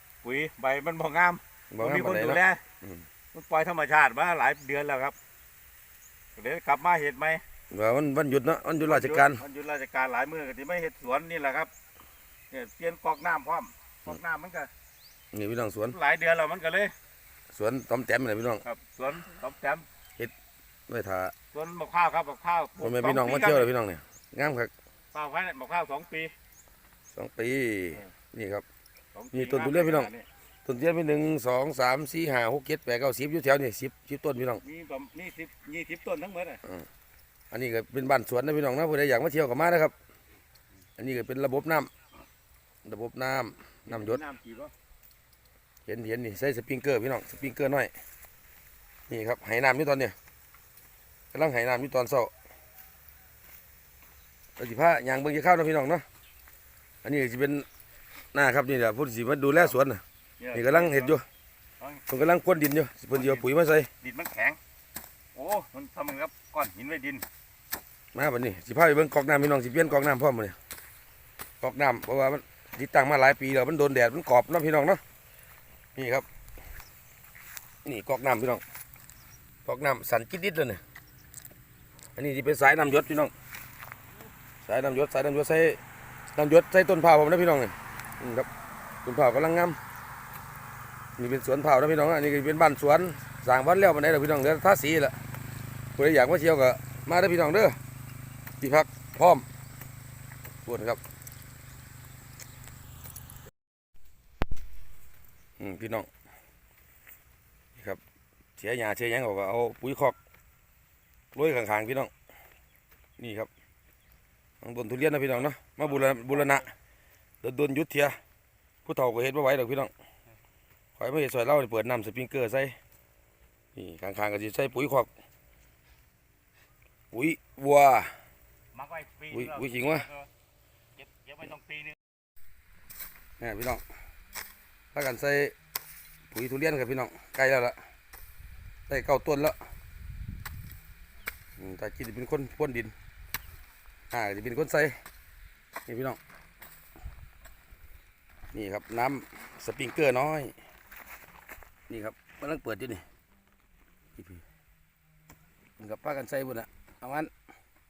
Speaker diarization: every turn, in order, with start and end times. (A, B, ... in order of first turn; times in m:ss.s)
0:00.2-0:02.6 A
0:01.7-0:03.0 B
0:03.3-0:05.2 A
0:06.4-0:07.4 A
0:07.7-0:09.4 B
0:08.8-0:11.7 A
0:12.5-0:14.7 A
0:15.3-0:16.0 B
0:15.9-0:16.9 A
0:17.5-0:18.6 B
0:18.6-0:19.8 A
0:20.9-0:21.3 B
0:21.5-0:23.7 A
0:22.8-0:24.7 B
0:25.1-0:26.3 A
0:27.1-0:28.6 B
0:29.1-0:30.3 A
0:29.3-0:30.1 B
0:30.6-0:34.6 B
0:34.6-0:36.6 A
0:37.5-0:39.9 B
0:41.0-0:41.9 B
0:42.8-0:44.2 B
0:43.9-0:44.7 A
0:45.8-0:47.9 B
0:49.1-0:50.2 B
0:51.3-0:52.3 B
0:54.6-0:56.0 B
0:57.0-0:57.7 B
0:58.3-1:00.0 B
1:00.4-1:01.2 A
1:00.5-1:01.2 B
1:02.1-1:03.9 B
1:03.1-1:03.4 A
1:04.0-1:04.6 A
1:05.3-1:07.2 A
1:08.1-1:10.6 B
1:11.6-1:15.0 B
1:15.9-1:16.2 B
1:17.8-1:18.6 B
1:19.6-1:20.8 B
1:22.2-1:23.3 B
1:24.6-1:25.8 B
1:26.3-1:28.5 B
1:29.0-1:29.8 B
1:31.2-1:35.2 B
1:36.0-1:37.8 B
1:38.6-1:39.4 B
1:40.6-1:41.0 B
1:45.6-1:46.1 B
1:48.6-1:50.2 B
1:51.3-1:52.1 B
1:53.2-1:53.5 B
1:54.6-1:56.7 B
1:57.4-1:58.2 B
1:58.8-1:59.9 B
2:01.0-2:02.8 B
2:03.7-2:05.1 B
2:07.1-2:08.1 B
2:08.7-2:10.3 A
2:09.3-2:10.1 B
2:11.0-2:11.9 A
2:13.4-2:13.8 B
2:14.9-2:15.5 B
2:16.3-2:17.8 B
2:18.9-2:19.6 B
2:21.6-2:22.9 B
2:24.1-2:25.0 B
2:25.8-2:26.2 B
2:28.5-2:30.6 B
2:31.9-2:33.0 B
2:34.2-2:34.4 B
2:35.8-2:37.3 B